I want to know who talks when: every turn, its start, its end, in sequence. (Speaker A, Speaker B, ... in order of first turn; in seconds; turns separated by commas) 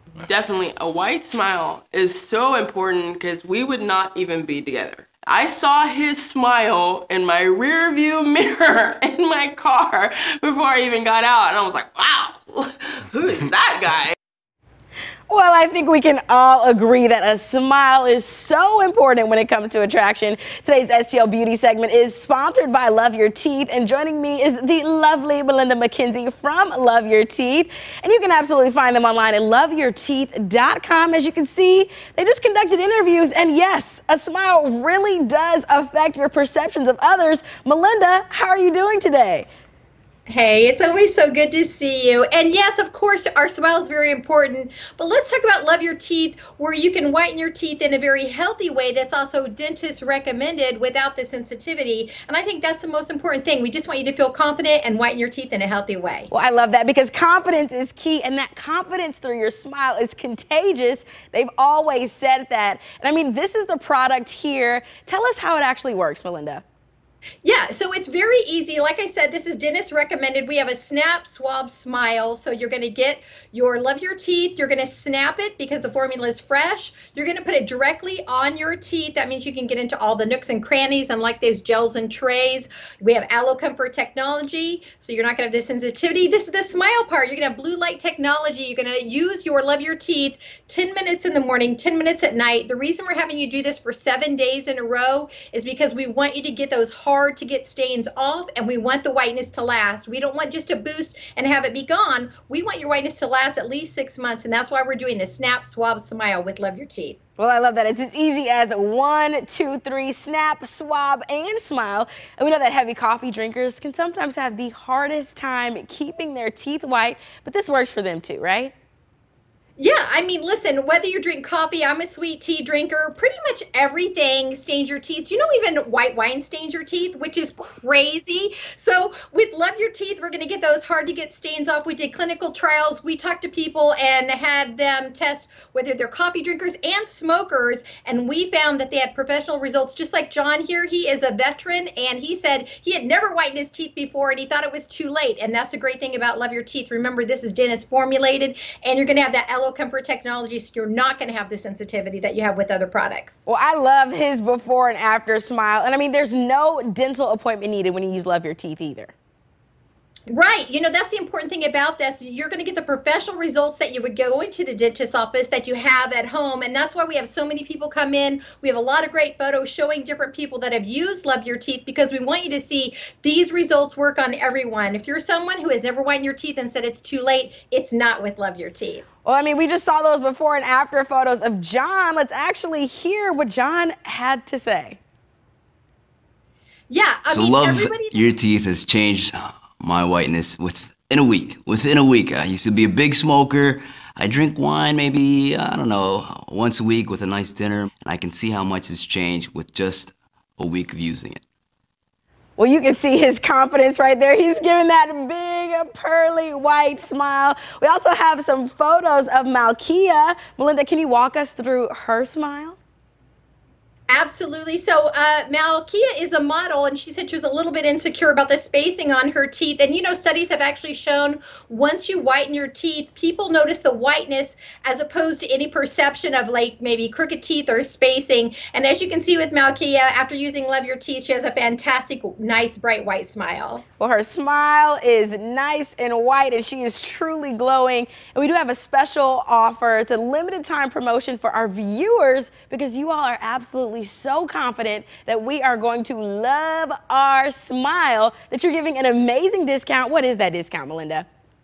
Speaker A: 0.2-14.2, Speaker B: 15.3-39.5, Speaker C: 40.3-56.3, Speaker B: 56.3-66.6, Speaker C: 67.4-107.2, Speaker B: 107.4-118.7, Speaker C: 119.8-153.4, Speaker B: 153.5-159.1, Speaker C: 160.3-179.1, Speaker B: 179.2-185.0, Speaker C: 186.9-188.3, Speaker D: 187.3-201.4, Speaker B: 202.6-212.8, Speaker C: 214.1-233.8, Speaker B: 234.0-251.2